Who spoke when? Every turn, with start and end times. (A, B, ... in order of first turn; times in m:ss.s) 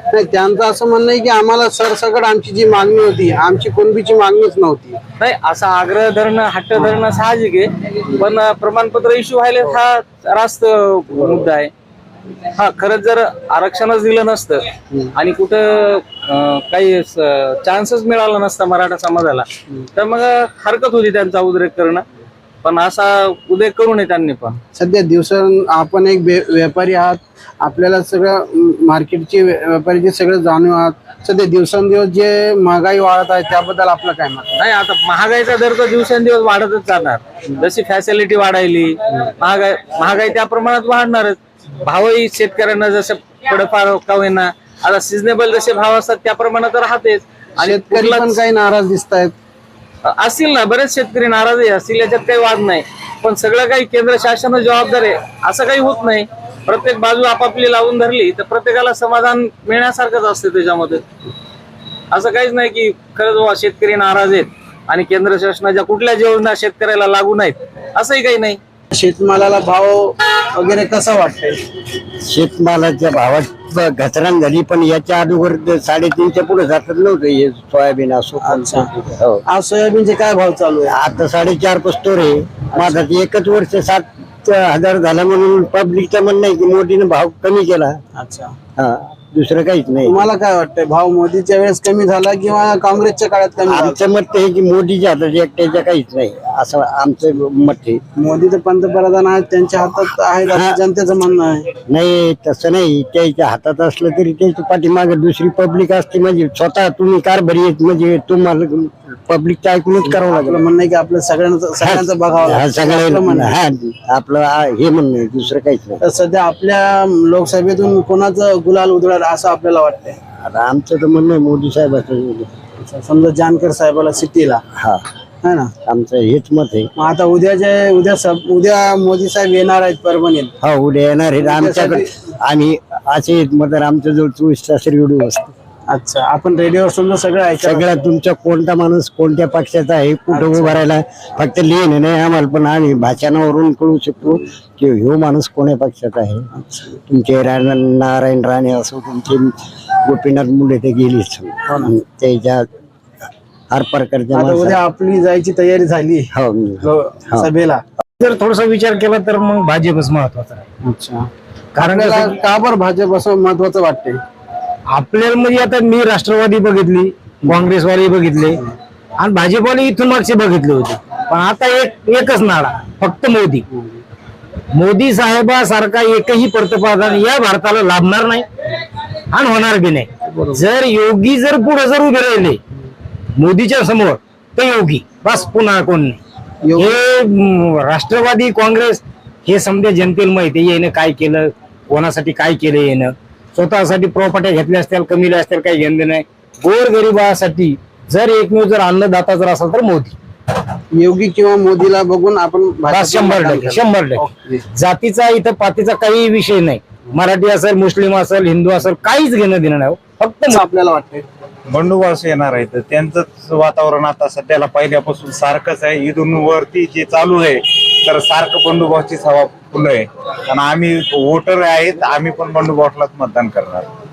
0:00.1-0:05.0 A
0:05.2-0:11.7 B
0:12.6-0:14.6 B
0:15.2-0:19.4 B
0:20.0-0:22.0 B
0:22.6-0:24.6 B
0:24.8-0:34.5 A
0:34.6-0:48.4 B
0:47.6-0:49.3 A
0:50.1-1:01.0 B
1:02.1-1:08.6 B
1:08.9-1:11.6 A
1:12.2-1:19.4 C
1:18.4-1:18.9 A
1:19.5-1:21.0 A
1:20.9-1:28.0 C
1:22.7-1:23.0 A
1:28.2-1:28.5 A
1:28.8-1:30.2 C
1:30.1-1:34.0 A
1:33.7-1:38.0 C
1:38.2-1:41.7 A
1:40.5-1:40.8 C
1:41.9-1:50.6 C
1:50.1-1:53.6 A
1:51.8-1:56.0 C
1:56.0-2:00.2 A
2:00.4-2:02.5 C
2:02.8-2:04.6 A
2:04.8-2:05.0 C
2:05.4-2:05.7 A
2:05.9-2:06.9 C
2:07.0-2:10.5 A
2:10.6-2:15.5 C
2:11.4-2:12.1 A
2:15.9-2:17.9 A
2:17.6-2:26.5 C
2:20.3-2:20.9 A
2:26.6-2:27.0 A
2:27.1-2:32.7 C
2:33.7-2:34.8 C
2:34.3-2:36.3 A
2:36.3-2:37.5 C
2:36.8-2:37.8 A
2:38.2-2:40.6 D
2:40.8-2:44.2 A
2:41.8-2:42.3 D
2:45.0-2:48.5 D
2:49.2-2:53.6 D
2:53.7-2:54.0 A
2:54.8-2:58.4 D
2:59.3-3:00.1 D
3:00.3-3:00.6 A
3:00.7-3:02.6 D
3:03.4-3:06.2 D
3:06.6-3:07.0 A
3:06.8-3:20.1 D
3:20.9-3:24.6 A
3:23.0-3:24.0 D
3:24.8-3:30.6 D
3:30.5-3:31.3 A
3:31.7-3:43.9 E